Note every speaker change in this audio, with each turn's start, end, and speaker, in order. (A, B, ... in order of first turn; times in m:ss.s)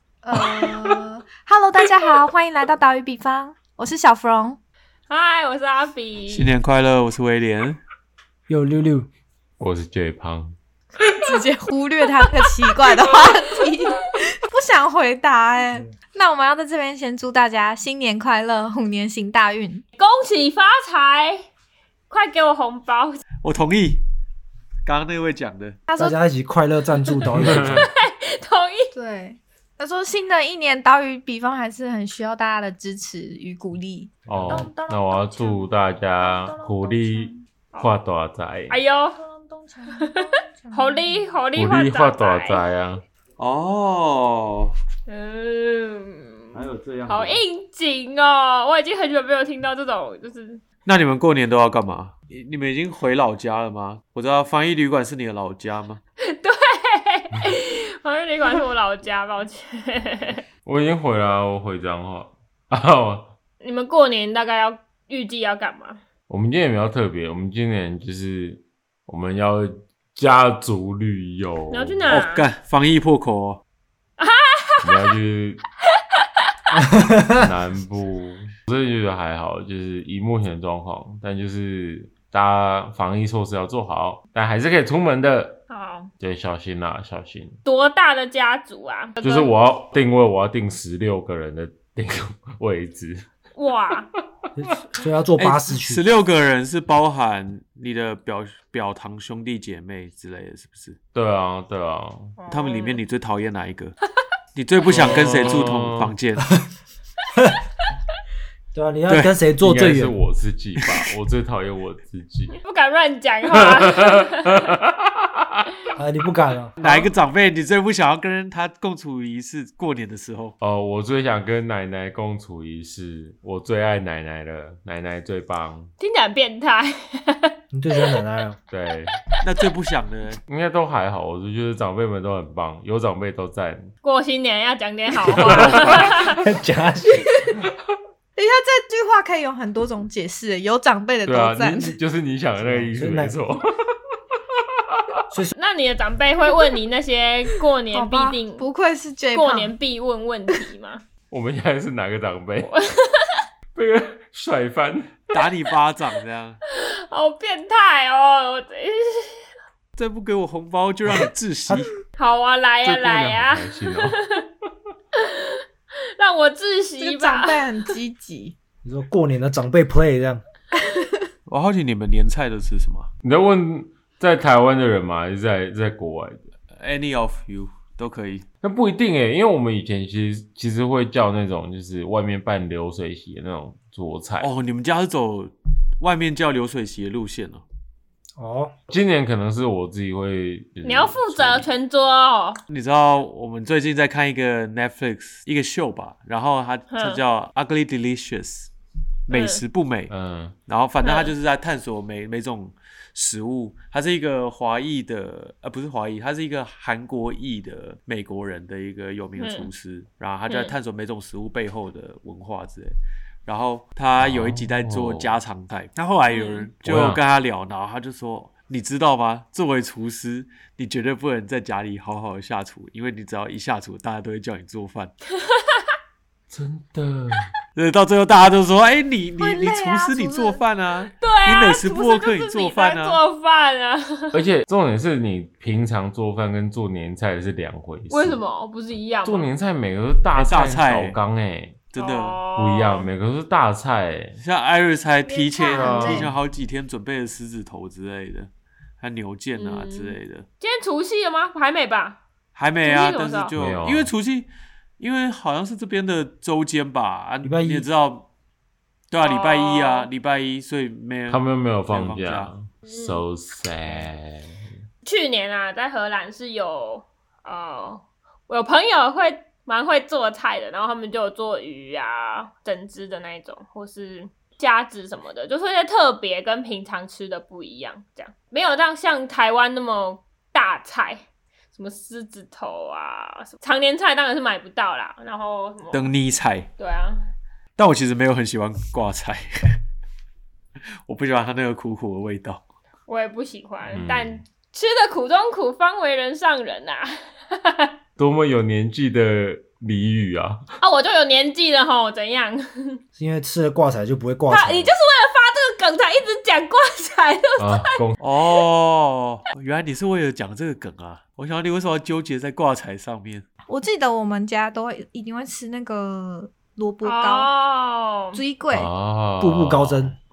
0:00.2-0:04.6 A
0:05.1-0:06.5 B
0:06.3-0:07.8 C
0:08.5-0:09.1 D
0:09.6-0:10.6 E
0:11.0-0:19.8 A
0:12.2-0:13.3 B
0:20.0-0:21.4 B
0:22.1-0:23.2 B
0:23.4-0:24.0 C
0:24.8-0:25.8 C
0:25.9-0:26.2 A
0:26.0-0:27.9 D
0:27.1-0:28.9 B
0:27.4-0:27.8 E
0:28.9-0:37.4 A
0:34.3-0:38.8 E
0:34.3-0:34.6 C
0:38.7-0:39.2 B
0:39.1-0:41.3 A
0:40.0-0:42.6 B
0:41.5-0:43.0 E
0:43.4-0:44.7 C
0:45.1-0:50.6 B
0:46.5-0:47.4 C
0:50.8-0:56.0 C
0:56.3-1:00.4 B
1:00.6-1:03.3 E
1:03.6-1:06.0 B
1:06.3-1:12.2 E
1:11.7-1:12.4 B
1:12.1-1:13.6 C
1:14.2-1:15.1 B
1:14.8-1:15.6 E
1:16.0-1:16.8 B
1:17.1-1:17.4 D
1:17.2-1:25.6 E
1:25.7-1:26.1 B
1:26.2-1:27.6 E
1:27.6-1:29.5 B
1:29.2-1:33.3 E
1:33.6-1:34.1 B
1:34.6-1:36.0 D
1:35.4-1:41.0 C
1:41.1-1:42.4 E
1:42.4-1:43.0 B
1:42.5-1:44.0 C
1:44.5-1:46.5 C
1:44.8-1:46.1 E
1:48.7-1:50.1 D
1:49.1-1:49.3 C
1:49.6-1:52.5 E
1:50.8-1:51.0 C
1:52.5-1:54.6 B
1:53.5-1:55.7 E
1:56.0-1:57.0 D
1:56.8-2:00.6 C
2:00.6-2:05.9 E
2:06.0-2:07.5 B
2:07.7-2:08.6 D
2:08.7-2:09.2 E
2:09.4-2:10.4 C
2:10.4-2:13.9 E
2:14.0-2:16.4 B
2:15.2-2:16.2 E
2:15.3-2:16.1 C
2:16.3-2:17.4 D
2:18.4-2:22.0 A
2:21.2-2:24.0 E
2:22.6-2:23.3 D
2:24.5-2:25.2 E
2:25.5-2:28.6 B
2:27.9-2:29.7 A
2:29.3-2:31.0 B
2:31.3-2:32.7 E
2:32.7-2:33.4 B
2:33.7-2:35.5 E
2:35.3-2:36.6 C
2:36.7-2:39.4 B
2:40.0-2:41.9 C
2:42.2-2:44.4 B
2:42.8-2:44.2 E
2:45.1-2:45.6 B
2:46.2-2:47.9 B
2:47.0-2:48.5 A
2:48.8-2:50.4 D
2:50.8-2:51.2 A
2:51.5-2:53.1 C
2:53.2-2:56.5 E
2:56.8-2:58.4 C
2:58.6-3:04.5 E
3:04.4-3:07.6 C
3:08.4-3:08.7 D
3:08.9-3:11.7 E
3:10.8-3:12.6 B
3:12.7-3:18.7 C
3:16.9-3:17.2 B
3:19.3-3:20.1 C
3:19.3-3:19.6 B
3:20.1-3:20.6 E
3:20.7-3:32.9 C
3:21.0-3:21.3 B
3:29.4-3:29.7 B
3:30.5-3:30.7 B
3:33.4-3:45.1 C
3:34.2-3:35.3 E
3:36.3-3:36.7 B
3:36.8-3:37.2 E
3:45.3-3:45.9 B
3:46.5-3:47.5 E
3:47.7-3:53.2 C
3:49.4-3:50.6 A
3:51.1-3:54.4 B
3:54.3-3:58.4 E
3:58.1-3:59.5 B
3:59.2-4:01.8 E
4:00.4-4:01.2 C
4:01.9-4:02.4 C
4:02.0-4:03.1 B
4:02.5-4:04.4 E
4:04.4-4:10.5 C
4:05.3-4:06.2 A
4:05.4-4:06.2 B
4:05.7-4:06.3 E
4:09.6-4:12.2 B
4:12.5-4:18.3 C
4:12.8-4:13.5 B
4:13.6-4:14.1 E
4:17.4-4:17.9 D
4:19.1-4:22.5 C
4:19.2-4:20.1 B
4:21.3-4:24.6 E
4:22.9-4:23.2 B
4:25.0-4:46.1 B
4:45.9-4:46.7 C
4:46.8-4:47.3 B
4:47.8-4:49.8 C
4:51.0-4:52.6 C
4:53.1-4:57.9 B
4:53.9-4:54.4 E
4:58.2-5:00.6 E
5:00.8-5:03.0 B
5:03.2-5:04.9 D
5:04.5-5:08.0 B
5:07.6-5:08.2 E
5:08.2-5:13.4 C
5:13.7-5:17.5 A
5:17.0-5:18.4 B
5:18.3-5:18.9 A
5:18.7-5:20.1 E
5:19.4-5:20.1 D